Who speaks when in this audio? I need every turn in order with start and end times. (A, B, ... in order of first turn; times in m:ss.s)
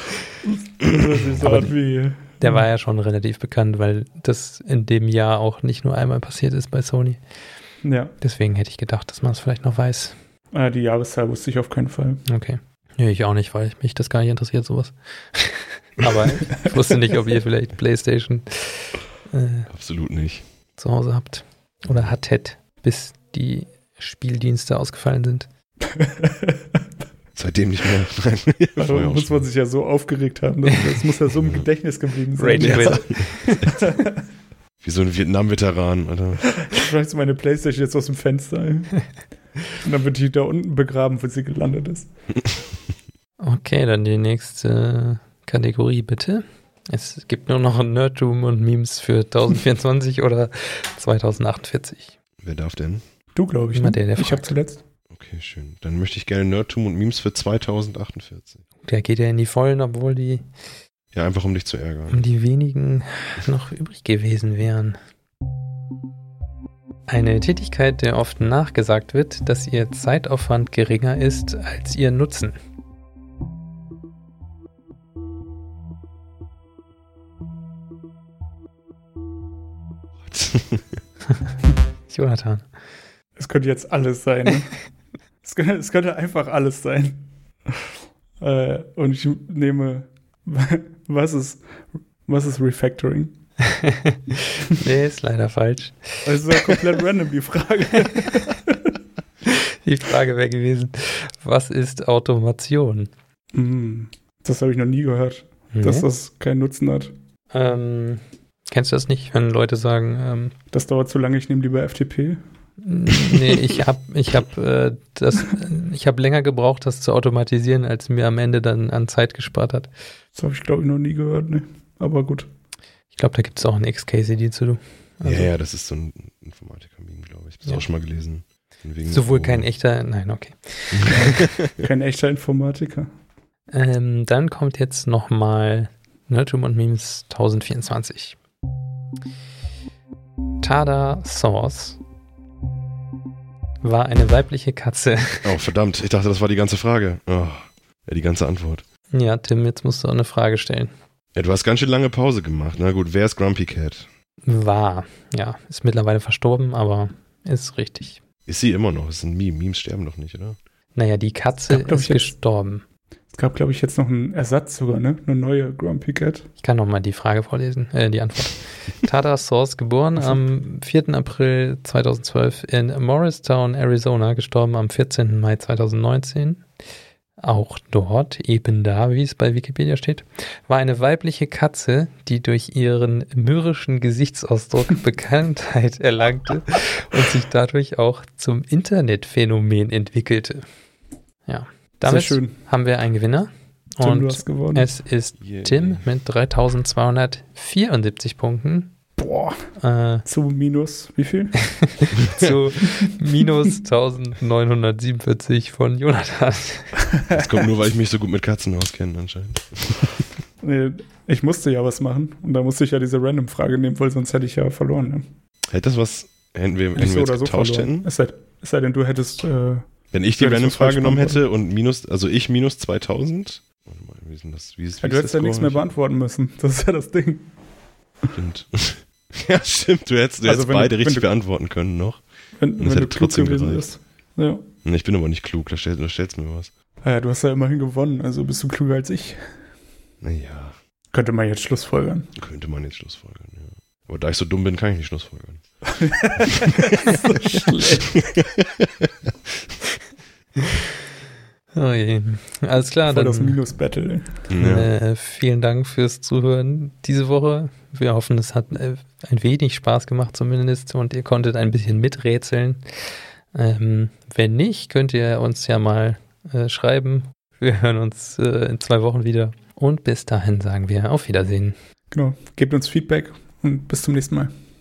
0:00.4-0:02.6 A
0:00.9-0:01.4 B
0:01.4-0:01.7 C
0:02.4-0:07.2 C
0:07.8-0:08.1 A
0:08.2-0:10.1 C
0:10.5-0:12.2 A
0:12.3-0:19.7 C
0:19.7-0:20.4 B
0:20.8-0:25.5 C
0:26.0-0:26.6 A
0:27.3-0:29.5 B
0:28.8-0:34.2 A
0:32.4-0:33.6 C
0:32.6-0:33.7 B
0:34.8-0:36.5 B
0:36.5-0:39.0 A
0:39.7-0:42.1 A
0:43.4-0:52.2 C
0:52.4-0:53.0 B
0:53.3-0:54.8 A
0:53.7-0:54.5 C
0:55.1-0:58.6 B
0:58.8-1:00.4 C
1:01.1-1:02.2 B
1:02.1-1:05.0 C
1:07.1-1:12.6 C
1:20.2-1:21.0 B
1:22.1-1:22.7 C
1:23.4-1:24.8 A
1:25.4-1:31.6 A
1:32.2-1:33.4 A
1:33.6-1:36.8 C
1:36.2-1:38.9 A
1:39.4-1:43.1 C
1:43.5-1:47.1 A
1:45.7-1:46.1 C
1:47.5-1:50.5 C
1:50.7-1:52.4 A
1:52.8-1:59.9 C
2:00.3-2:02.5 A
2:03.1-2:05.5 C
2:05.2-2:09.7 B
2:09.1-2:11.3 C
2:10.9-2:11.7 B
2:11.1-2:13.1 A
2:13.7-2:18.4 C
2:20.6-2:22.0 C
2:23.8-2:25.5 C
2:25.4-2:28.8 B
2:29.1-2:30.9 C
2:31.3-2:34.1 B
2:34.4-2:38.2 C
2:38.4-2:40.6 B
2:40.9-2:42.8 C
2:41.7-2:42.3 A
2:43.3-2:46.5 A
2:46.6-2:56.6 C
2:57.4-3:10.6 C
3:11.5-3:18.9 C
3:12.0-3:12.6 A
3:14.0-3:14.9 A
3:15.4-3:16.0 B
3:19.2-3:19.7 A
3:19.8-3:20.2 C
3:20.2-3:21.6 A
3:21.7-3:27.0 C
3:22.2-3:22.5 B
3:27.2-3:27.5 A
3:27.3-3:30.3 B
3:30.6-3:35.3 A
3:35.7-3:38.1 B
3:36.9-3:41.4 A
3:40.1-3:45.8 B
3:45.0-3:47.5 A
3:48.3-3:52.2 B
3:50.4-3:51.3 A
3:52.6-3:54.7 A
3:52.8-3:53.9 B
3:54.8-3:56.7 B
3:57.0-3:59.5 A
4:00.2-4:00.8 B
4:01.1-4:02.3 A
4:02.4-4:05.6 B
4:05.9-4:08.4 A
4:06.4-4:07.2 B
4:08.1-4:09.5 B
4:11.7-4:13.6 C
4:13.1-4:14.5 A
4:14.5-4:14.9 B
4:14.6-4:31.8 C
4:32.1-4:34.5 A